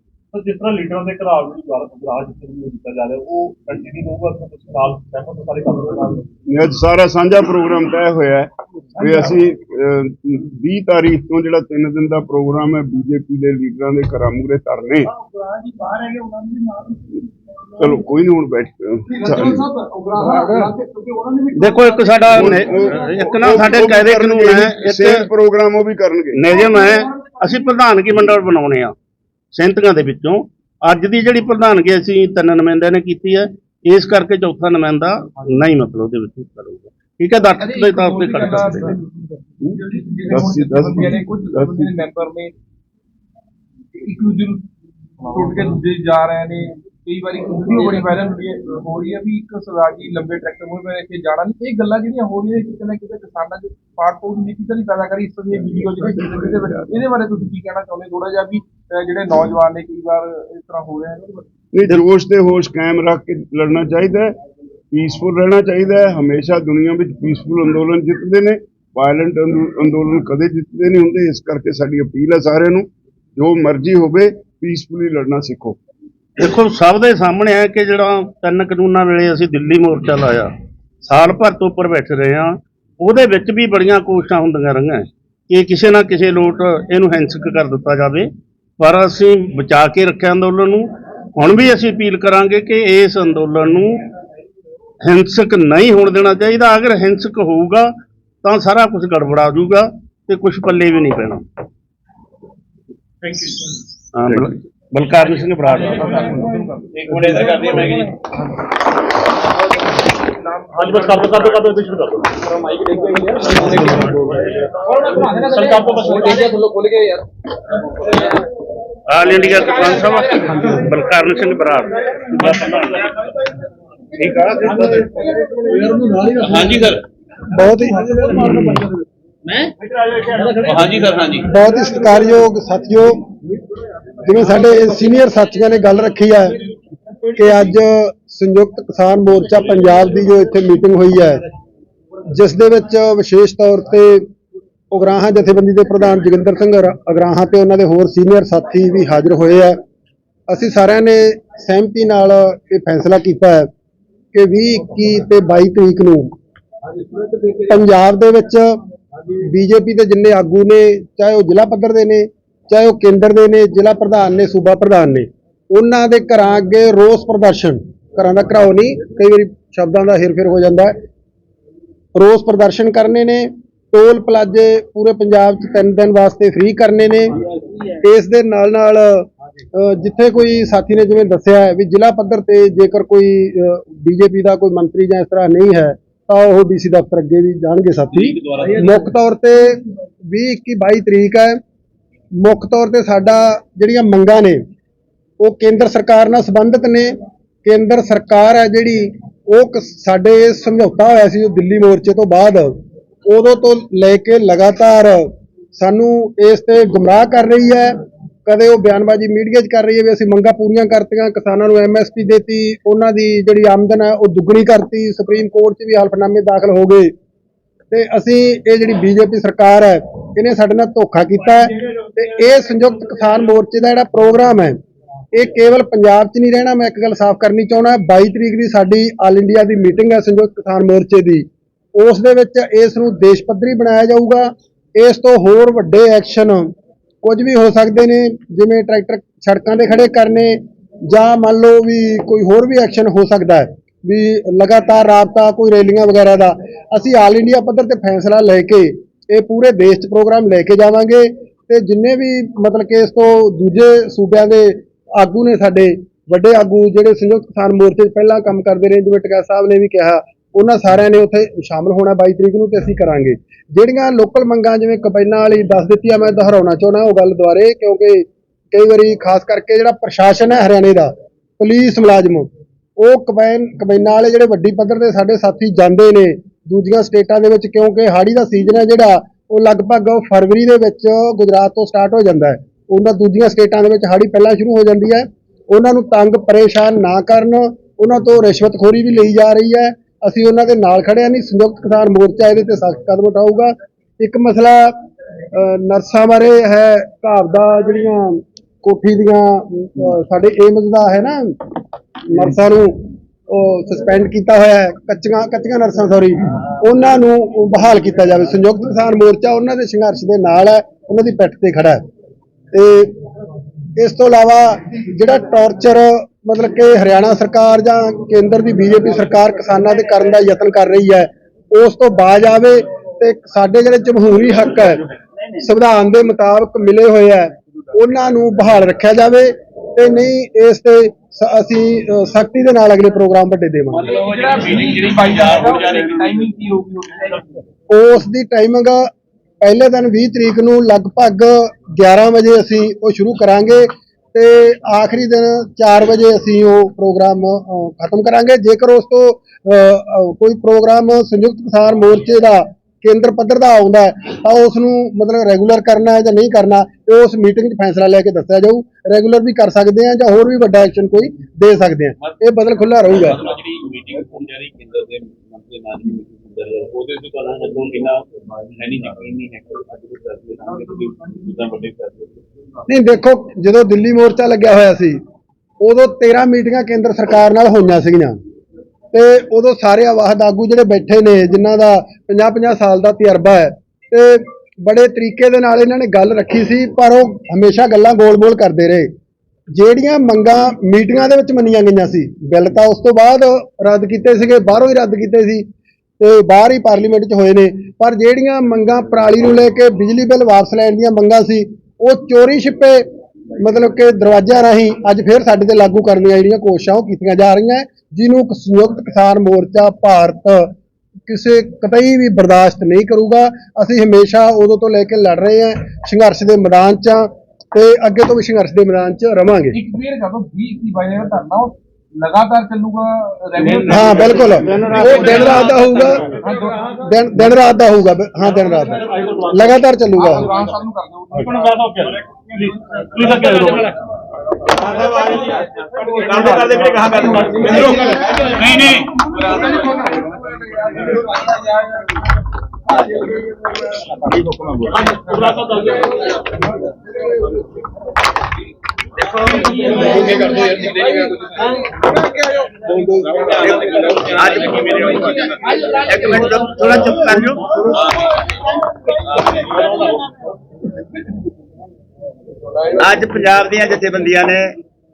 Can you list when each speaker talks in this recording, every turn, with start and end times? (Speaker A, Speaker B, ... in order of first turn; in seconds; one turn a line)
Speaker A: 0.3-6.3
Speaker B: 6.5-15.1
Speaker C: 15.8-16.9
Speaker B: 17.8-19.6
Speaker C: 19.1-23.6
Speaker D: 21.6-25.2
Speaker B: 22.3-26.4
Speaker D: 26.3-28.9
Speaker D: 29.5-39.0
Speaker C: 37.6-42.5
Speaker B: 40.3-41.9
Speaker C: 44.0-44.7
Speaker C: 45.2-61.4
Speaker B: 61.7-64.3
Speaker B: 64.9-75.8
Speaker D: 76.4-80.5
Speaker D: 81.0-94.0
Speaker D: 95.0-97.9
Speaker D: 98.4-101.4
Speaker D: 104.2-106.4
Speaker C: 105.7-108.0
Speaker E: 106.9-108.2
Speaker C: 110.3-111.7
Speaker A: 110.7-112.3
Speaker C: 112.4-114.2
Speaker A: 113.9-116.4
Speaker C: 114.8-117.2
Speaker D: 119.1-122.9
Speaker A: 122.4-123.1
Speaker D: 124.2-125.0
Speaker E: 126.4-127.0
Speaker F: 127.5-128.9
Speaker A: 129.8-130.9
Speaker E: 130.7-131.5
Speaker F: 131.4-133.3
Speaker F: 134.2-136.6
Speaker F: 137.3-141.4
Speaker F: 142.3-144.3
Speaker F: 144.9-149.8
Speaker F: 150.5-153.7
Speaker F: 154.3-156.3
Speaker C: 157.1-157.5
Speaker F: 157.7-158.8
Speaker F: 159.3-170.9
Speaker F: 172.2-177.4
Speaker F: 178.0-191.6
Speaker E: 188.1-189.1
Speaker F: 192.4-194.6
Speaker F: 195.4-197.1
Speaker F: 197.6-202.8
Speaker F: 203.3-207.9
Speaker F: 208.5-217.1
Speaker F: 217.9-224.8
Speaker F: 225.3-236.7
Speaker F: 237.2-295.0
Speaker F: 295.5-301.6
Speaker F: 302.3-312.0
Speaker F: 312.7-313.2
Speaker F: 314.0-325.0
Speaker F: 325.6-334.1
Speaker E: 333.9-336.5
Speaker C: 334.0-337.3
Speaker F: 337.9-339.1
Speaker F: 339.6-363.4
Speaker E: 362.9-372.4
Speaker F: 372.9-375.2
Speaker F: 375.8-378.4
Speaker F: 379.1-389.1
Speaker F: 389.8-395.6
Speaker F: 396.2-403.0
Speaker F: 403.6-410.7
Speaker F: 411.3-419.8
Speaker C: 419.7-427.1
Speaker D: 423.6-426.3
Speaker F: 423.9-426.2
Speaker F: 427.1-430.5
Speaker A: 429.1-429.8
Speaker C: 430.1-432.3
Speaker A: 431.3-434.0
Speaker C: 433.2-433.8
Speaker G: 434.8-435.5
Speaker A: 435.5-438.7
Speaker G: 436.3-438.1
Speaker C: 437.1-441.5
Speaker E: 437.8-439.9
Speaker G: 442.9-443.4
Speaker G: 444.1-445.2
Speaker A: 445.1-446.1
Speaker G: 449.2-450.5
Speaker E: 449.6-451.7
Speaker E: 452.9-455.9
Speaker F: 452.9-453.3
Speaker G: 453.5-458.0
Speaker E: 457.9-458.3
Speaker E: 459.3-459.9
Speaker A: 459.7-460.2
Speaker G: 462.9-464.7